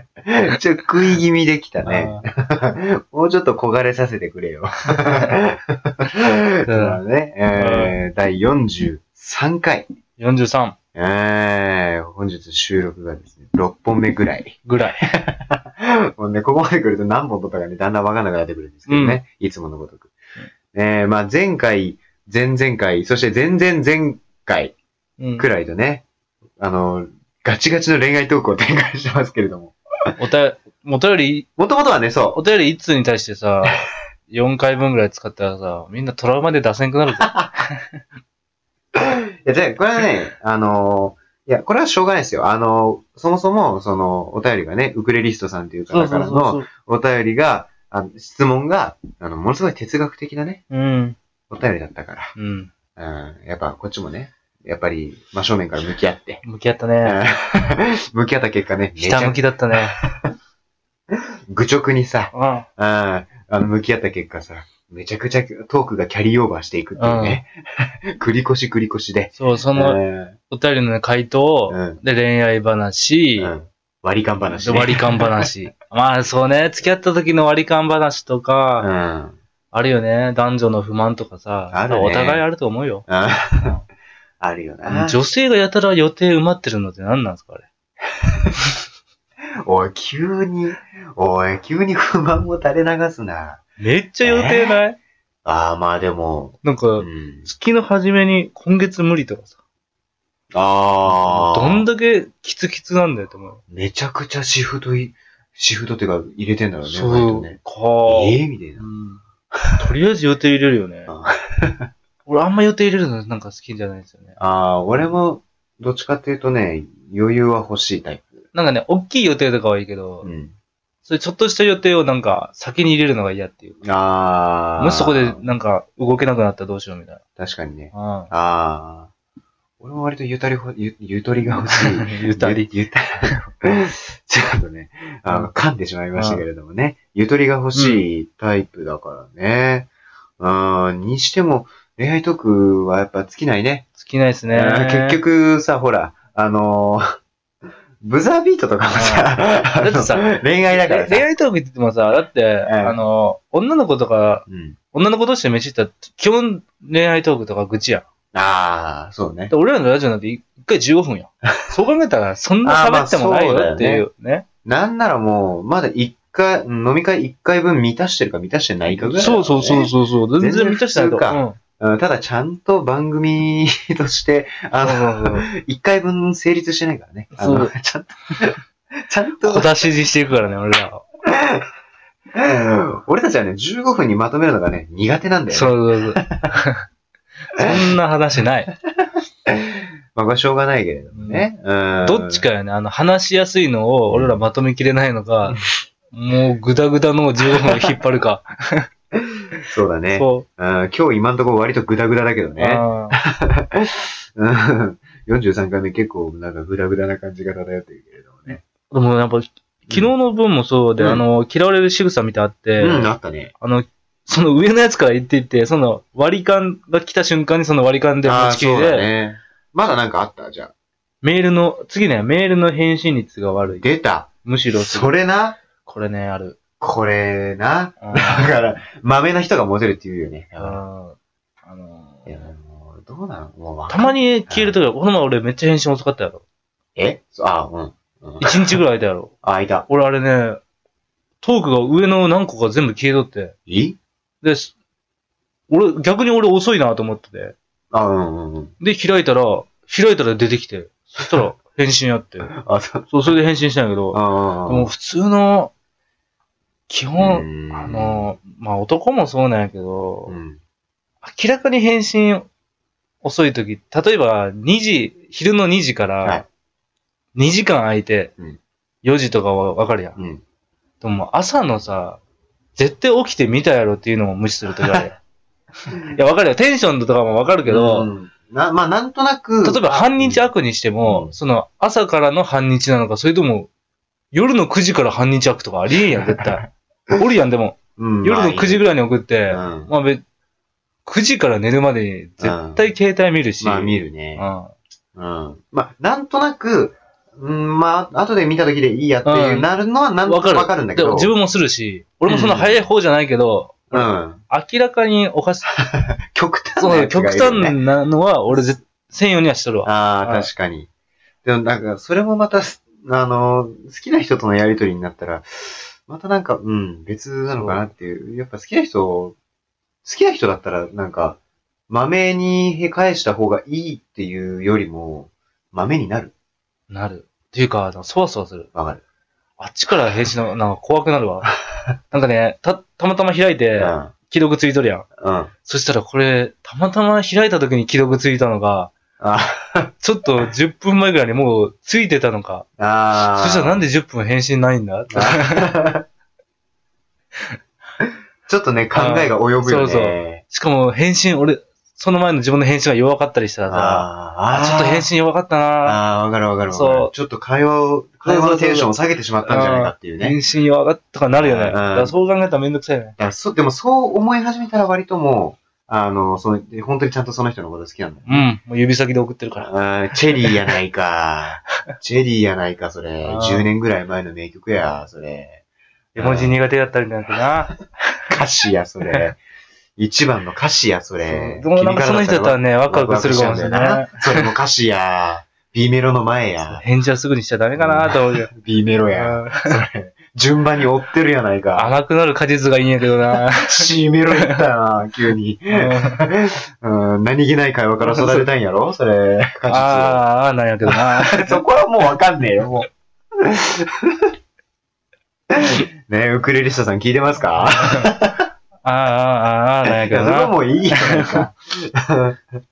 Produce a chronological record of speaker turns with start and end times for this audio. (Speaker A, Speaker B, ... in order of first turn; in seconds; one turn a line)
Speaker A: 0.3-9.9
Speaker B: 1.8-2.2
Speaker B: 5.1-5.3
Speaker B: 6.1-8.0
Speaker B: 10.2-10.8
Speaker A: 10.9-20.1
Speaker B: 14.7-15.1
Speaker B: 18.9-19.2
Speaker A: 20.7-24.8
Speaker B: 25.2-25.5
Speaker A: 25.4-26.1
Speaker A: 26.6-29.8
Speaker B: 30.2-31.5
Speaker A: 31.6-32.4
Speaker B: 32.4-38.0
Speaker A: 37.2-37.5
Speaker A: 39.0-50.6
Speaker B: 45.9-46.7
Speaker B: 50.7-51.2
Speaker A: 51.5-52.3
Speaker B: 52.4-52.7
Speaker A: 53.0-56.4
Speaker B: 56.4-57.2
Speaker A: 57.0-60.2
Speaker B: 59.0-60.0
Speaker A: 61.5-70.4
Speaker B: 62.3-62.7
Speaker B: 67.0-67.4
Speaker B: 69.4-73.5
Speaker A: 71.7-72.0
Speaker A: 73.4-75.5
Speaker B: 74.5-78.9
Speaker A: 78.8-79.4
Speaker B: 79.7-83.1
Speaker A: 81.7-82.4
Speaker A: 83.1-83.8
Speaker A: 84.4-85.2
Speaker B: 84.9-87.7
Speaker A: 89.6-93.6
Speaker B: 93.8-95.0
Speaker A: 94.2-94.8
Speaker A: 95.5-97.5
Speaker B: 96.6-99.5
Speaker A: 100.5-101.9
Speaker B: 101.0-103.6
Speaker A: 103.7-108.8
Speaker B: 106.8-109.2
Speaker B: 109.8-111.1
Speaker A: 111.1-111.9
Speaker B: 112.3-114.3
Speaker A: 114.4-118.5
Speaker B: 118.5-120.3
Speaker A: 120.2-120.5
Speaker B: 121.0-123.8
Speaker A: 123.8-125.5
Speaker B: 124.8-127.2
Speaker A: 127.4-129.1
Speaker B: 127.9-128.3
Speaker A: 129.8-143.9
Speaker B: 131.5-132.7
Speaker B: 136.2-136.4
Speaker B: 137.7-138.0
Speaker B: 143.9-145.2
Speaker A: 144.5-147.1
Speaker A: 148.0-151.3
Speaker B: 148.9-158.0
Speaker A: 152.7-153.0
Speaker A: 154.5-154.8
Speaker A: 158.3-159.5
Speaker B: 159.5-164.4
Speaker A: 162.6-164.1
Speaker A: 164.7-179.7
Speaker B: 168.9-171.6
Speaker B: 174.8-175.5
Speaker B: 177.3-177.7
Speaker B: 179.4-181.0
Speaker A: 181.3-181.7
Speaker A: 182.3-186.5
Speaker B: 185.5-186.8
Speaker B: 187.6-188.7
Speaker A: 189.5-192.5
Speaker B: 191.1-191.5
Speaker B: 192.0-195.6
Speaker A: 194.1-194.4
Speaker B: 196.1-198.9
Speaker A: 199.1-208.6
Speaker B: 200.1-200.5
Speaker B: 202.6-203.2
Speaker B: 208.5-219.1
Speaker A: 211.0-211.2
Speaker A: 212.8-213.5
Speaker A: 218.2-220.7
Speaker B: 221.2-223.8
Speaker A: 223.7-225.6
Speaker B: 224.4-225.1
Speaker B: 225.8-226.6
Speaker A: 226.8-230.8
Speaker B: 228.0-228.6
Speaker B: 230.6-232.5
Speaker A: 232.3-234.8
Speaker B: 233.9-236.4
Speaker A: 237.0-238.6
Speaker B: 238.4-239.3
Speaker A: 239.4-239.9
Speaker B: 239.9-240.6
Speaker B: 241.4-243.5
Speaker A: 243.7-244.0
Speaker B: 244.4-244.7
Speaker B: 245.7-247.6
Speaker A: 247.9-248.7
Speaker B: 248.8-252.5
Speaker A: 252.5-253.1
Speaker B: 253.1-255.7
Speaker A: 254.1-254.9
Speaker B: 256.9-260.4
Speaker A: 257.2-258.4
Speaker A: 260.3-260.6
Speaker B: 261.2-262.5
Speaker B: 263.2-266.4
Speaker B: 267.4-268.3
Speaker B: 269.0-270.2
Speaker A: 270.2-270.4
Speaker B: 271.0-272.2
Speaker B: 272.8-275.2
Speaker A: 274.7-275.1
Speaker B: 275.9-278.1
Speaker A: 277.7-280.4
Speaker B: 279.6-283.7
Speaker A: 281.0-281.4
Speaker B: 284.3-290.2
Speaker A: 286.1-286.4
Speaker A: 288.0-288.8
Speaker A: 289.5-289.9
Speaker B: 291.1-294.7
Speaker A: 292.4-292.9
Speaker A: 293.6-294.4
Speaker A: 295.1-301.3
Speaker B: 299.2-299.7
Speaker B: 300.2-305.7
Speaker A: 302.3-302.9
Speaker A: 303.9-304.4
Speaker A: 305.8-307.8
Speaker B: 306.8-310.5
Speaker A: 309.8-310.9
Speaker A: 311.4-319.4
Speaker B: 317.5-317.9
Speaker A: 320.0-326.3
Speaker B: 326.9-328.7
Speaker A: 328.8-329.0
Speaker B: 329.6-331.5
Speaker B: 332.1-335.1
Speaker A: 333.8-334.1
Speaker A: 335.2-335.5
Speaker B: 335.6-338.9
Speaker A: 339.2-339.9
Speaker B: 340.0-342.7
Speaker A: 342.8-343.8
Speaker B: 343.2-345.7
Speaker A: 345.1-346.0
Speaker A: 348.5-350.4
Speaker B: 348.9-356.0
Speaker A: 353.7-355.1
Speaker A: 355.8-360.4
Speaker B: 356.7-357.1
Speaker B: 358.2-358.9
Speaker B: 359.4-363.2
Speaker A: 361.4-362.1
Speaker A: 363.2-368.5
Speaker B: 368.3-369.7
Speaker A: 369.6-375.6
Speaker B: 373.2-373.7
Speaker B: 376.2-378.2
Speaker A: 376.2-376.6
Speaker A: 378.3-379.4
Speaker A: 380.0-386.8
Speaker B: 381.2-384.5
Speaker B: 386.6-388.5
Speaker A: 387.8-391.9
Speaker B: 389.1-389.8
Speaker B: 391.8-393.8
Speaker A: 393.4-400.2
Speaker B: 394.3-394.6
Speaker B: 395.7-396.2
Speaker B: 398.0-398.5
Speaker B: 399.7-402.1
Speaker A: 400.9-402.9
Speaker A: 403.4-404.3
Speaker A: 405.5-408.5
Speaker B: 407.4-408.1
Speaker B: 408.8-411.4
Speaker A: 409.9-412.4